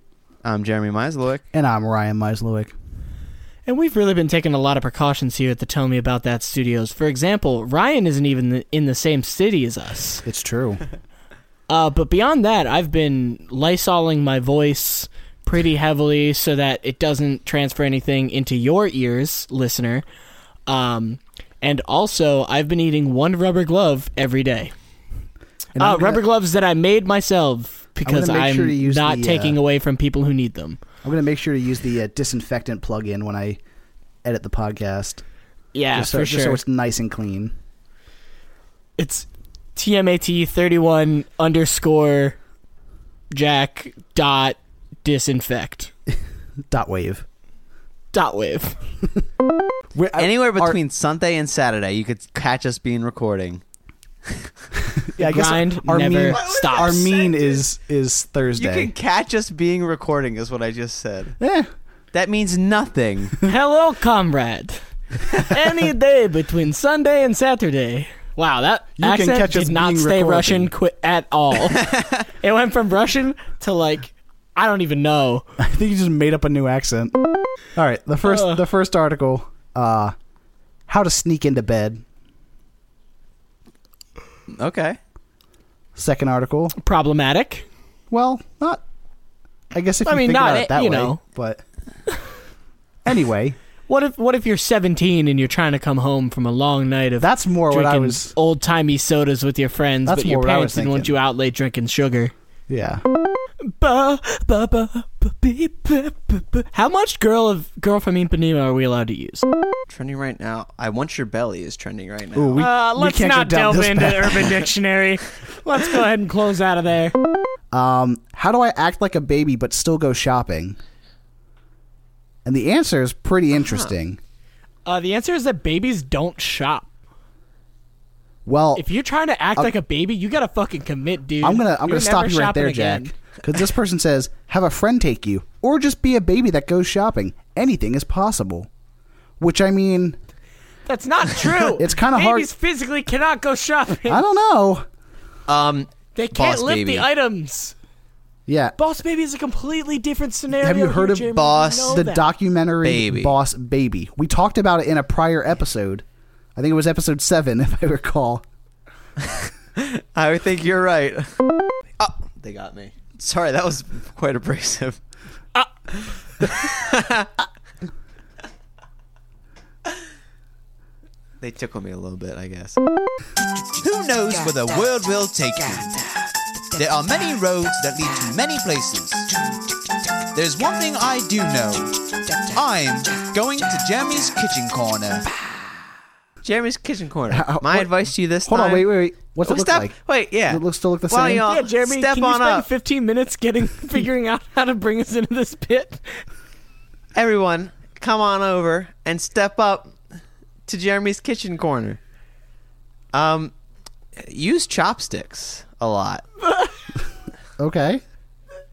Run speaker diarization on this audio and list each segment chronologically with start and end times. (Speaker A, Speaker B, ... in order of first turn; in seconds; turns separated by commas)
Speaker A: 0.4-1.4, Speaker B: 1.5-2.7, Speaker C: 3.6-10.2, Speaker B: 10.2-10.8, Speaker C: 11.7-20.0, Speaker C: 20.7-24.7, Speaker B: 25.7-26.2, Speaker C: 25.8-30.8, Speaker B: 28.0-29.6, Speaker B: 31.0-33.6, Speaker B: 34.2-35.2, Speaker C: 35.7-36.6, Speaker B: 35.9-37.5, Speaker C: 39.0-42.4, Speaker C: 43.3-45.9, Speaker B: 46.7-47.2, Speaker C: 48.1-48.8, Speaker B: 49.9-50.8, Speaker A: 50.1-53.6, Speaker B: 55.1-58.9, Speaker C: 55.2-57.1, Speaker A: 56.3-57.6, Speaker A: 58.5-61.4, Speaker B: 61.4-61.7, Speaker A: 62.1-63.4, Speaker C: 63.4-75.4, Speaker B: 69.0-70.7, Speaker B: 75.6-77.1, Speaker B: 77.8-80.1, Speaker C: 78.2-78.6, Speaker B: 80.9-82.0, Speaker A: 84.5-85.0, Speaker B: 86.0-86.7, Speaker C: 86.8-87.7, Speaker B: 88.1-88.8, Speaker B: 89.7-91.6, Speaker C: 90.0-91.2, Speaker B: 93.0-93.6, Speaker C: 93.9-102.3, Speaker B: 97.2-98.3, Speaker B: 100.1-101.1, Speaker B: 102.7-103.0, Speaker C: 103.6-109.5, Speaker A: 109.9-112.6, Speaker B: 112.3-114.6, Speaker C: 112.5-117.1, Speaker B: 117.7-120.8, Speaker B: 122.4-124.2, Speaker C: 124.8-126.9, Speaker B: 128.4-128.8, Speaker C: 128.8-133.1, Speaker B: 131.4-138.7, Speaker B: 139.4-140.2, Speaker C: 140.8-144.2, Speaker B: 141.8-142.5, Speaker B: 144.0-144.8, Speaker A: 145.5-147.1, Speaker C: 146.1-147.7, Speaker B: 148.5-148.8, Speaker C: 148.8-152.3, Speaker B: 150.6-156.0, Speaker A: 151.3-151.9, Speaker A: 152.8-153.3, Speaker B: 156.5-158.4, Speaker A: 159.8-161.3, Speaker A: 162.0-165.0, Speaker A: 166.4-167.2, Speaker A: 171.4-172.8, Speaker A: 173.8-176.0, Speaker A: 176.7-179.3, Speaker A: 180.3-185.3, Speaker A: 186.4-188.9, Speaker B: 187.3-191.5, Speaker A: 189.4-192.7, Speaker C: 191.3-196.2, Speaker A: 197.1-199.9, Speaker A: 200.7-202.0, Speaker A: 203.1-203.5, Speaker A: 204.2-206.2, Speaker C: 206.4-206.7, Speaker B: 207.6-208.0